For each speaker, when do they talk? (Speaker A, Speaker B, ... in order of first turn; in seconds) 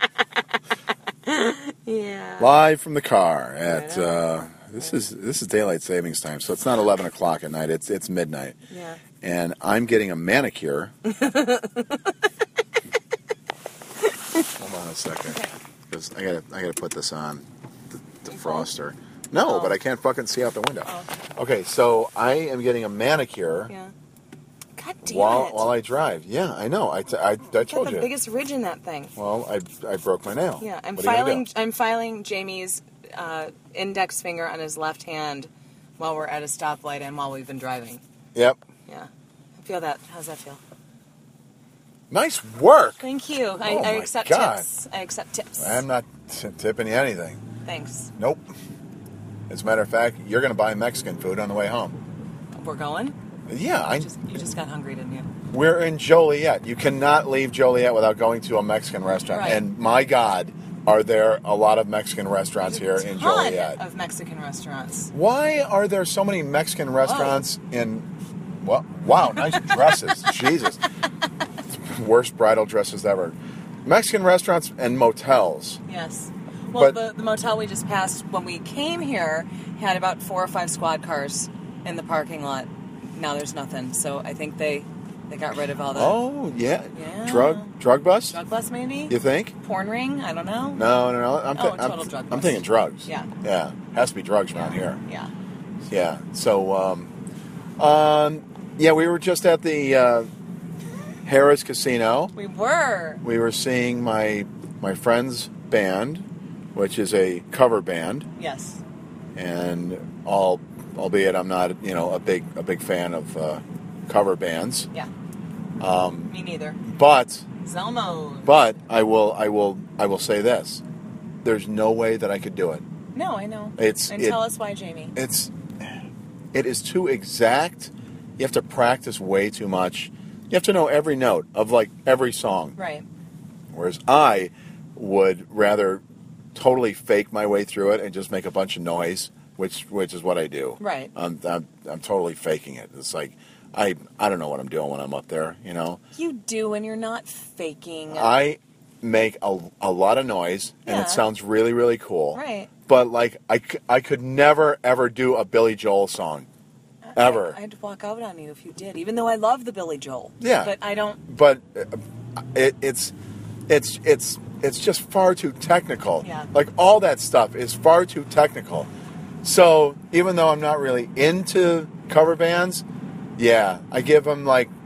Speaker A: 1.2-2.5, 3.6-4.3, 8.7-9.0, 11.1-12.1, 15.2-15.5, 18.3-18.7, 19.4-19.8, 23.7-23.9, 24.8-25.7, 27.6-29.1, 30.6-38.0, 38.9-40.6, 43.0-45.8, 47.6-48.1, 52.5-53.1, 53.9-55.3, 59.3-59.6, 62.6-65.1, 67.0-67.4, 75.9-86.2, 86.9-87.7, 88.3-90.8, 91.5-93.3, 94.5-95.3, 102.3-103.2, 108.4-108.8, 116.3-116.8, 117.6-118.6, 123.1-125.1, 132.8-133.1, 140.8-141.1, 146.1-148.3, 150.8-151.2, 152.3-152.7, 157.1-161.2, 166.2-166.5
Speaker B: 2.4-8.5, 9.2-10.9, 14.6-17.4, 18.2-23.7, 25.0-28.1, 29.1-31.4, 38.3-38.6, 42.1-43.0, 43.6-44.6, 45.6-47.4, 48.2-48.4, 49.5-51.9, 53.5-54.1, 55.5-63.8, 65.1-68.1, 68.6-70.8, 71.8-75.8, 85.9-88.4, 89.1-89.5, 90.7-95.0, 95.9-97.1, 97.8-100.3, 101.2-102.3, 103.2-108.3, 109.3-114.9, 115.8-116.3, 116.8-117.4, 118.4-120.8, 121.4-122.8, 123.8-124.4, 125.1-125.5, 126.5-132.8, 133.7-136.0, 136.5-146.0, 148.1-156.5, 157.1-157.6, 160.4-160.7, 161.2-162.0, 162.5-163.1, 163.7-168.9, 169.4-172.8, 173.4-174.7